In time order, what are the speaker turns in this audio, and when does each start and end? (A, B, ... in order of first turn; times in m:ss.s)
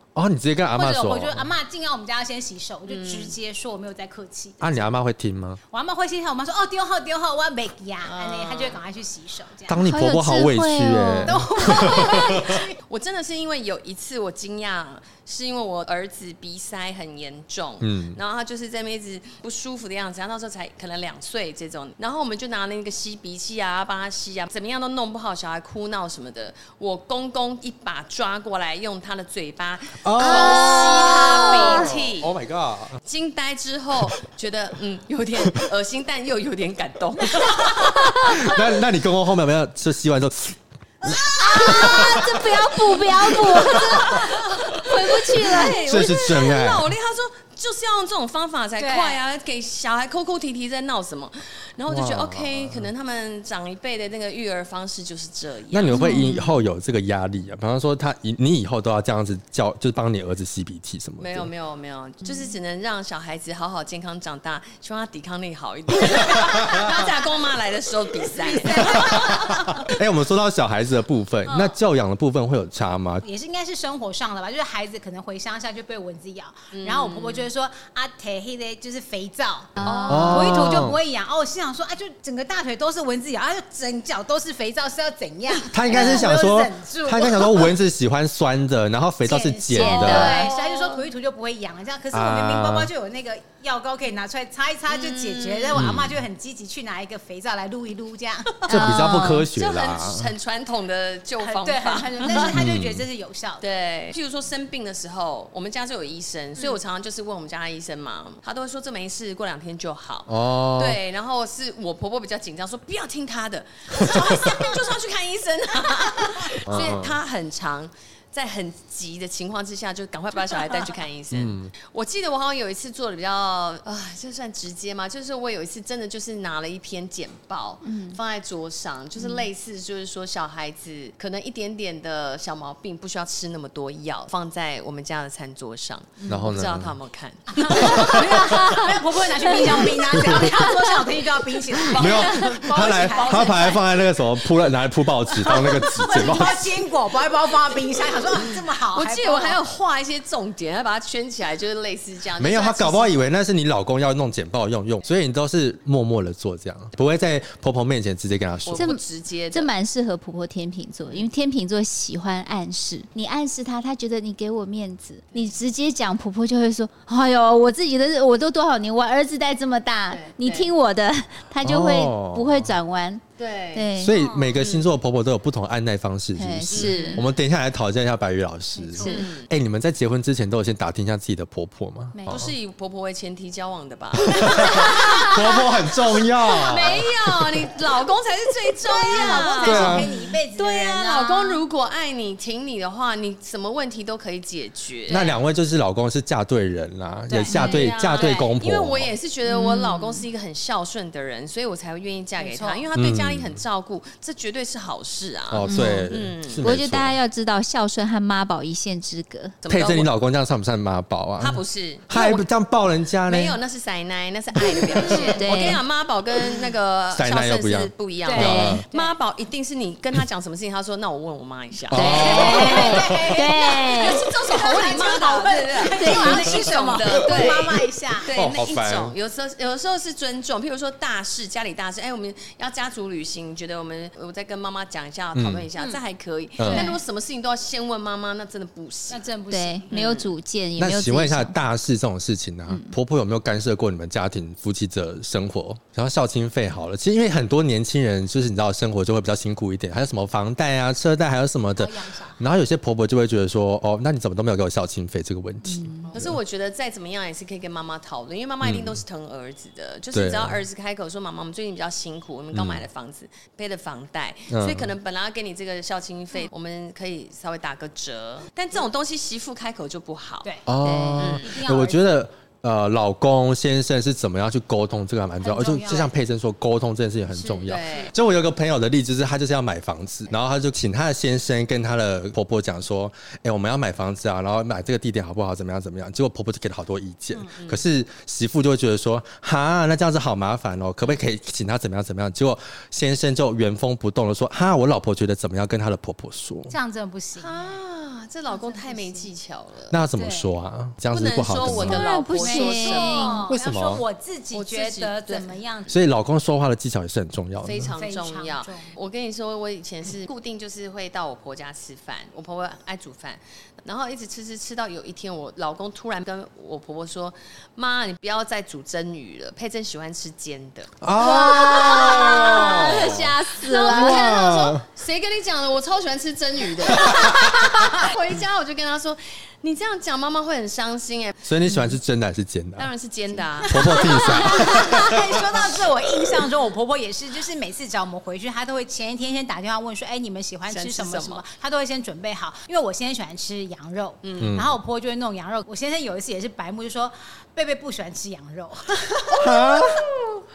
0:00.2-0:01.5 A
0:00.8-0:04.9 B
0:02.9-0:03.3 C
0:04.6-0:05.6 A
0:05.7-0:09.8 B
0:08.0-0:08.8 C
0:09.7-0:12.6 A
0:09.8-0:11.4 D
0:11.2-0:12.7 B
0:11.8-0:32.3 C
0:17.8-0:18.2 A
0:30.0-0:33.0 A
0:30.4-0:31.9 D
0:31.5-0:31.8 B
0:33.0-0:38.5 C
0:37.4-0:42.4 A
0:37.9-0:38.4 D
0:41.0-0:56.4 C
0:41.3-0:45.8 D
0:45.4-0:46.9 A
0:48.8-0:49.2 B
0:51.9-0:52.9 A
0:55.7-1:01.5 A
0:55.9-0:56.6 D
1:01.2-1:09.5 C
1:06.1-1:06.9 A
1:08.4-1:09.9 B
1:08.9-1:13.2 A
1:11.5-1:11.7 B
1:13.2-1:27.8 B
1:16.7-1:17.5 C
1:19.8-1:20.2 D
1:19.8-1:20.6 C
1:20.1-1:21.0 A
1:25.7-1:30.5 A
1:29.3-1:39.0 B
1:29.7-1:30.5 D
1:30.1-1:31.0 C
1:32.1-1:32.9 A
1:34.9-1:35.9 C
1:35.7-1:36.2 A
1:38.7-1:40.3 A
1:38.7-1:39.5 D
1:39.3-1:42.6 C
1:41.4-1:43.6 B
1:42.4-1:43.1 A
1:43.6-2:18.6 C
1:50.3-1:51.0 A
1:54.1-1:54.6 A
1:56.6-1:57.2 A
2:01.3-2:01.7 A
2:07.8-2:08.2 D
2:09.2-2:09.4 D
2:16.3-2:17.0 A
2:17.6-2:23.8 B
2:17.7-2:18.9 A
2:19.6-2:20.5 C
2:19.7-2:20.5 A
2:21.8-2:23.8 C
2:22.0-2:26.7 A
2:25.4-2:29.6 B
2:25.7-2:26.4 C
2:28.9-2:33.2 C
2:32.4-2:38.9 A
2:38.6-2:39.7 C
2:38.8-2:54.2 D
2:50.1-2:50.7 C
2:51.6-2:52.8 A
2:53.4-2:53.9 C
2:54.0-3:02.5 A
2:54.1-2:54.7 B
2:54.6-2:54.9 C
2:56.4-2:57.2 D
2:56.7-2:57.3 C
2:58.7-2:59.2 B
2:59.0-2:59.5 C
3:02.1-3:02.5 B
3:02.3-3:15.4 C
3:04.3-3:07.1 A
3:08.9-3:11.6 B
3:09.6-3:10.1 A
3:15.1-3:19.1 A
3:17.3-3:18.5 B
3:17.5-3:17.9 D
3:17.5-3:26.7 C
3:19.5-3:20.2 D
3:22.4-3:22.8 B
3:23.0-3:23.6 A
3:25.5-3:27.2 A
3:25.7-3:29.6 D
3:29.6-3:30.1 C
3:29.7-3:33.6 A
3:31.4-3:32.5 C
3:33.3-3:59.2 C
3:34.9-3:35.8 D
3:35.0-3:35.7 B
3:37.1-3:38.8 A
3:38.2-3:39.1 B
3:38.4-3:38.8 D
3:41.9-3:43.3 A
3:41.9-3:44.2 D
3:42.0-3:48.3 B
3:46.0-3:46.4 D
3:48.3-3:49.2 A
3:55.4-3:55.7 A
3:55.8-3:56.0 B
3:56.6-3:57.0 A
3:56.6-3:57.0 B
3:59.1-3:59.9 B
3:59.5-4:01.5 D
3:59.9-4:00.3 C
4:00.8-4:16.4 A
4:02.7-4:02.9 D
4:11.8-4:12.4 B
4:15.7-4:16.2 D
4:16.1-4:30.5 C
4:18.6-4:19.0 A
4:20.1-4:20.6 A
4:22.5-4:22.8 A
4:24.5-4:24.9 A
4:30.7-4:56.8 A
4:30.8-4:31.4 D
4:31.2-4:31.6 C
4:31.4-4:32.0 B
4:35.4-4:36.2 B
4:37.4-4:38.0 B
4:37.7-4:38.1 C
4:47.5-4:47.8 C
4:56.7-4:57.8 B
4:57.4-5:00.0 C
4:58.5-4:59.3 B
4:59.9-5:02.1 A
5:00.2-5:00.5 B
5:01.1-5:03.5 C
5:01.7-5:03.5 D
5:02.3-5:06.0 B
5:03.5-5:04.0 A
5:04.5-5:05.6 C
5:05.9-5:07.9 A
5:07.6-5:31.4 C
5:08.0-5:09.0 B
5:21.0-5:23.3 A
5:21.2-5:24.8 D
5:23.8-5:24.8 A
5:26.9-5:27.5 A
5:31.4-5:32.9 A
5:32.8-5:34.7 C
5:33.6-5:49.7 B
5:33.7-5:35.7 A
5:40.7-5:41.4 C
5:44.2-5:44.6 C
5:44.4-5:44.8 A
5:49.2-5:50.4 C
5:49.4-5:50.1 A